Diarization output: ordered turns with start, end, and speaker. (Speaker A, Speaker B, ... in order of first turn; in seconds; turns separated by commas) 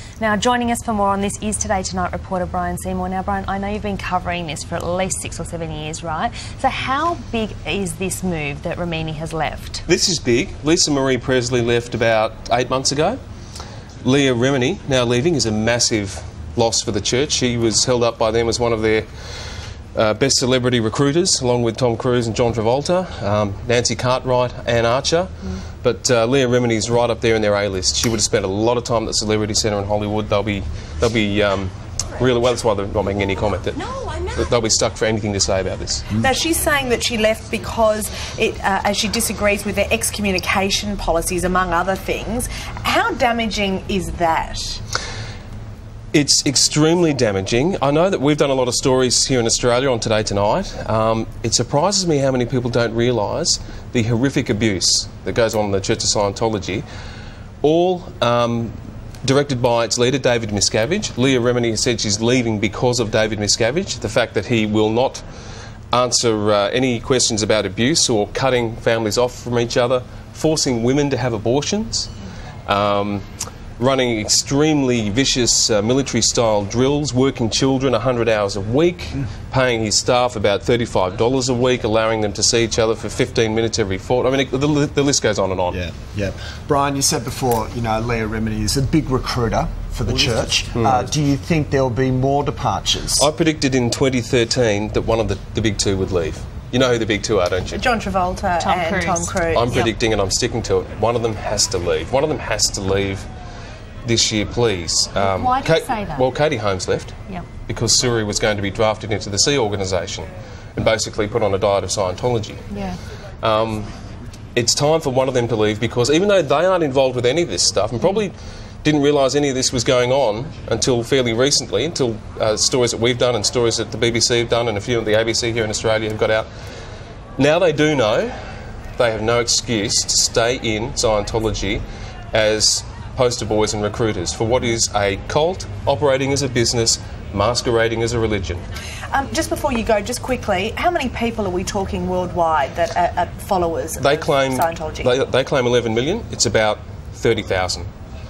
Speaker A: 0.2-9.8, Speaker B: 9.9-13.2, Speaker B: 14.0-19.1, Speaker B: 19.9-36.2, Speaker C: 36.2-44.8, Speaker B: 46.1-56.9, Speaker B: 57.6-65.2, Speaker B: 65.9-72.1, Speaker B: 72.7-73.2, Speaker B: 73.8-85.8, Speaker D: 85.7-93.3, Speaker B: 90.7-91.0, Speaker B: 93.2-97.8, Speaker C: 97.7-99.9, Speaker A: 98.6-99.3, Speaker B: 99.5-103.3, Speaker B: 104.0-112.7, Speaker A: 105.2-106.3, Speaker A: 112.7-113.0, Speaker B: 113.4-113.9, Speaker B: 114.5-126.5, Speaker B: 127.4-128.3, Speaker B: 129.0-138.6, Speaker C: 139.1-145.1, Speaker B: 144.0-147.9